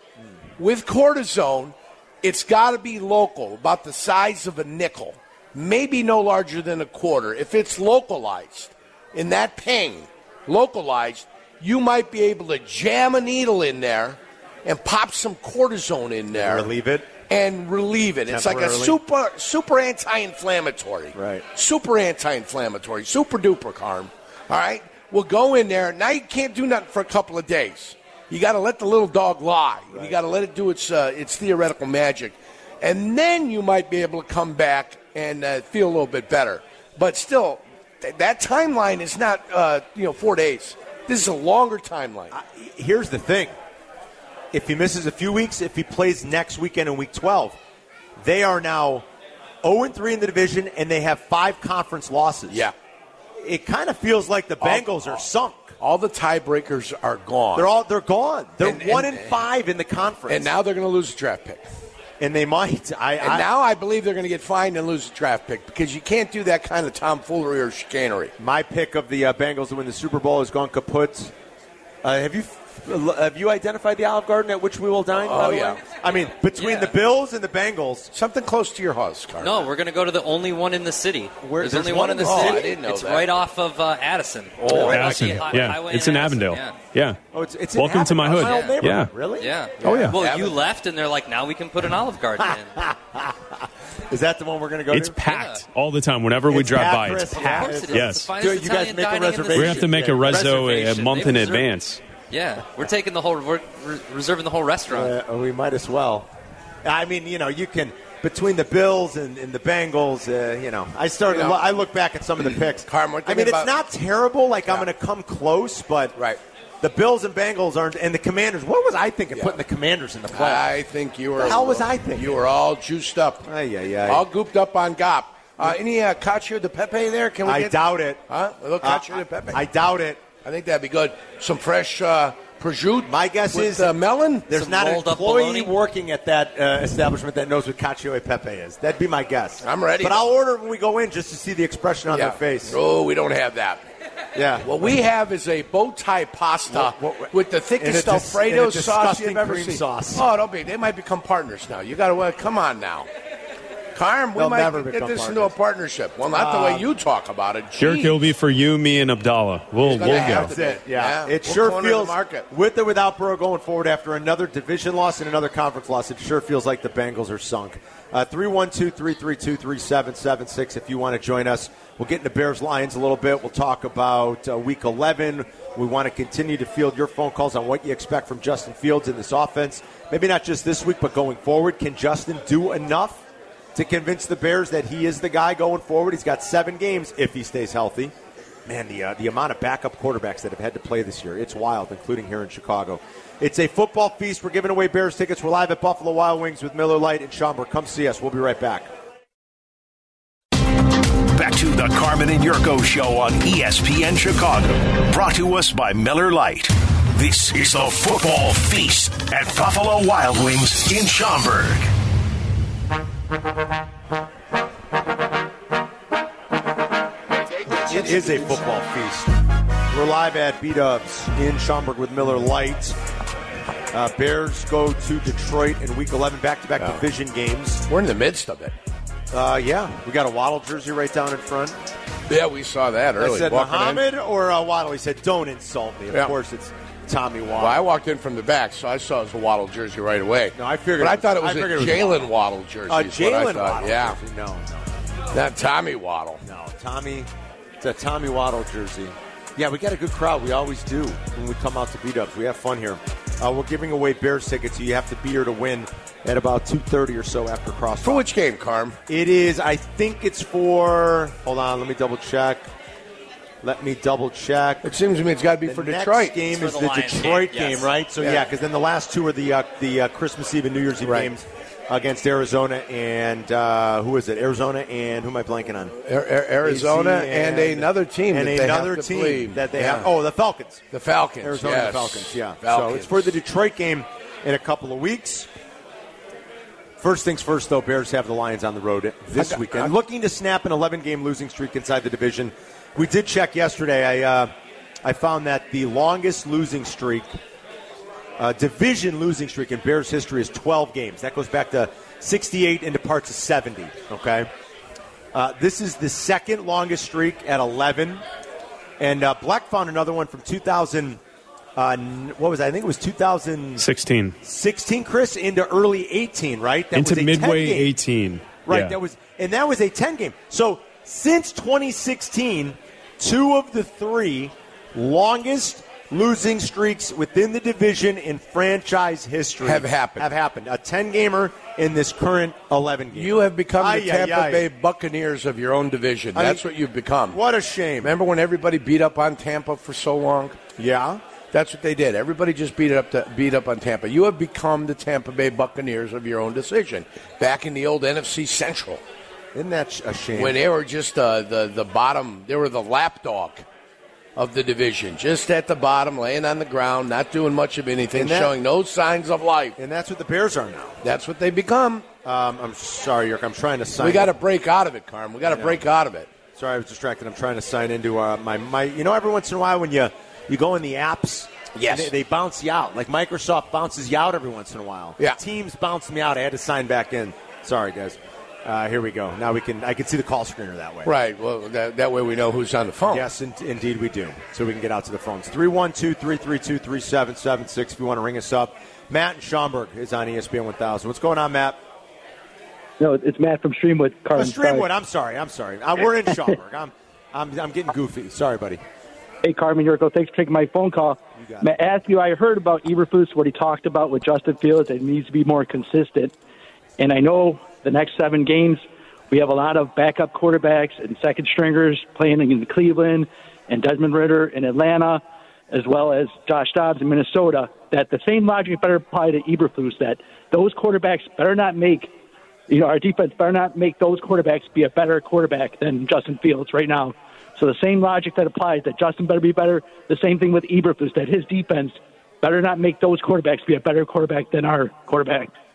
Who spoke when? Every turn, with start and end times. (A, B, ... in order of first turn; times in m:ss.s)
0:00.6-0:16.7 A
0:16.3-0:17.1 B
0:17.3-0:42.3 A
0:18.3-0:19.0 B
0:21.2-0:21.4 B
0:42.3-0:43.6 B
0:44.5-0:47.6 B
0:48.2-0:49.1 B
0:49.6-0:52.7 B
0:52.5-0:52.8 A
0:53.4-0:55.8 B
0:54.6-0:55.2 A
0:55.8-0:57.7 A
0:57.5-1:00.5 B
0:58.6-0:59.4 A
1:00.3-1:01.6 A
1:02.2-1:03.5 B
1:03.2-1:08.3 A
1:08.4-1:11.3 B
1:12.0-1:18.1 B
1:15.1-1:15.8 A
1:16.6-1:16.9 C
1:18.1-1:19.7 A
1:19.4-1:26.8 C
1:21.4-1:22.7 B
1:22.2-1:23.3 A
1:24.7-1:25.5 B
1:24.7-1:27.2 D
1:27.3-1:30.1 B
1:27.8-1:29.1 D
1:28.3-1:28.8 C
1:29.4-1:32.8 C
1:29.8-1:30.2 D
1:29.8-1:30.6 A
1:32.4-1:35.2 B
1:34.9-1:38.3 D
1:35.3-1:35.6 C
1:36.5-1:40.8 B
1:37.3-1:41.7 C
1:39.6-1:42.0 D
1:42.3-1:45.1 C
1:44.9-1:46.3 B
1:46.8-1:56.2 B
1:51.3-1:51.6 A
1:52.8-1:53.7 A
1:56.8-2:00.7 B
2:00.3-2:03.5 A
2:01.4-2:02.4 B
2:03.4-2:04.2 B
2:04.1-2:09.6 A
2:07.4-2:08.2 B
2:08.8-2:10.2 B
2:10.4-2:14.5 A
2:13.0-2:14.0 B
2:14.5-2:22.8 B
2:14.5-2:15.7 C
2:19.6-2:20.2 A
2:22.1-2:23.8 A
2:24.4-2:24.9 B
2:24.6-2:33.1 A
2:26.7-2:30.3 B
2:34.0-2:38.3 A
2:34.4-2:35.6 B
2:36.3-2:36.9 B
2:37.8-2:40.5 D
2:39.8-2:42.5 A
2:40.0-3:03.2 B
3:03.8-3:08.1 B
3:08.7-3:18.9 B
3:21.2-3:31.9 E
3:37.7-3:38.5 A
3:37.8-3:39.4 B
3:39.9-3:43.0 B
3:43.9-3:47.8 B
3:46.8-3:47.1 A
3:47.9-3:48.8 A
3:49.3-3:51.8 B
3:52.3-3:54.0 A
3:53.2-3:57.8 B
3:57.6-4:04.2 A
4:00.6-4:02.3 B
4:02.9-4:04.9 B
4:05.3-4:06.4 A
4:06.4-4:18.2 B
4:18.0-4:19.0 A
4:19.1-4:22.7 B
4:23.6-4:25.0 B
4:24.8-4:26.4 A
4:25.6-4:36.0 B
4:26.5-4:27.9 C
4:28.2-4:28.5 A
4:31.0-4:31.3 A
4:36.0-4:40.1 A
4:36.6-4:40.8 B
4:40.9-4:43.3 A
4:41.4-4:45.5 B
4:47.0-4:54.5 B
4:49.4-4:49.9 A
4:55.0-4:57.4 B
4:58.4-5:04.5 B
5:05.3-5:08.2 B
5:09.0-5:11.2 B
5:11.8-5:13.8 B
5:13.8-5:14.4 D
5:14.4-5:17.9 B
5:16.9-5:19.0 D
5:18.7-5:34.7 B
5:29.6-5:30.3 A
5:33.1-5:37.4 A
5:36.4-5:36.6 B
5:37.3-5:38.1 B
5:38.0-5:40.6 A
5:40.8-5:41.2 B
5:41.5-5:49.0 A
5:49.5-5:50.6 B
5:50.4-5:53.6 A
5:54.4-5:59.8 A
5:58.1-5:58.5 B
5:59.8-6:01.0 B
6:01.0-6:02.1 A
6:02.2-6:04.3 B
6:04.0-6:06.3 A
6:05.5-6:05.8 B
6:06.6-6:21.1 B
6:11.8-6:12.1 A
6:21.0-6:23.3 A
6:23.1-6:31.8 B
6:33.0-6:34.9 F
6:34.4-6:38.8 B
6:39.4-6:46.3 F
6:41.4-6:41.7 B
6:47.0-7:02.1 F
7:02.7-7:15.5 F